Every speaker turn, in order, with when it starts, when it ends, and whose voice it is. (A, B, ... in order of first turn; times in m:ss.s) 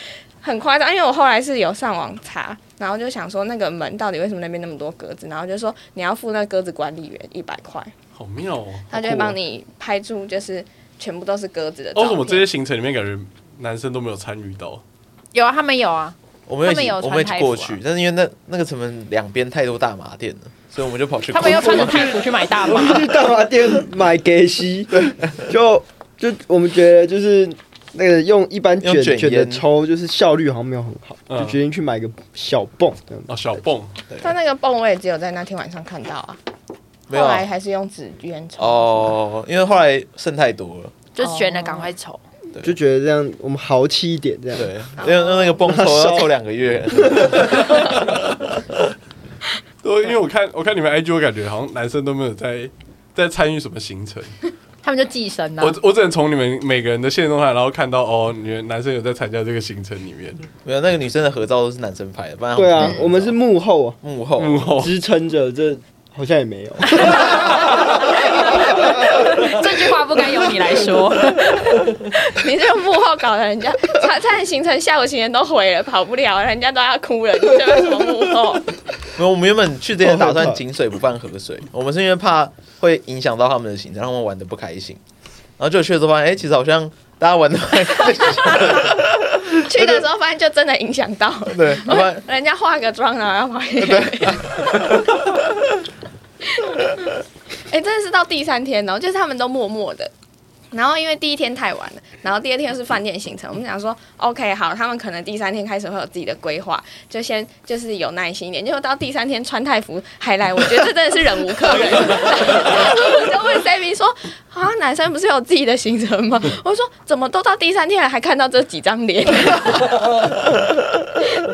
0:00.4-0:07.9 A
0:08.2-0:08.9 B
0:08.9-0:12.5 A
0:11.9-0:14.8 B
0:15.3-0:17.8 C
0:16.5-0:22.2 D
0:21.3-0:23.2 C
0:22.7-0:33.3 E
0:28.8-0:29.6 D
0:31.3-0:31.6 B
0:33.3-0:33.9 B
0:34.2-0:36.4 A
0:37.1-0:37.5 D
0:37.1-0:39.1 A
0:38.6-0:41.0 D
0:41.2-0:42.2 C
0:41.2-0:41.9 A
0:42.6-0:44.8 E
0:44.6-0:48.1 D
0:45.0-0:45.6 A
0:45.6-0:46.3 E
0:49.8-0:54.3 B
0:54.8-0:55.8 C
0:55.6-1:00.4 B
1:00.6-1:03.4 D
1:02.5-1:04.0 E
1:04.0-1:04.8 D
1:04.4-1:05.0 B
1:04.8-1:09.0 E
1:08.1-1:11.9 C
1:12.3-1:18.7 A
1:19.2-1:25.0 D
1:20.0-1:20.6 E
1:25.6-1:30.0 D
1:29.6-1:35.0 A
1:31.5-1:32.2 D
1:33.8-1:34.5 D
1:36.5-1:37.0 A
1:37.7-1:40.1 A
1:40.7-2:00.0 A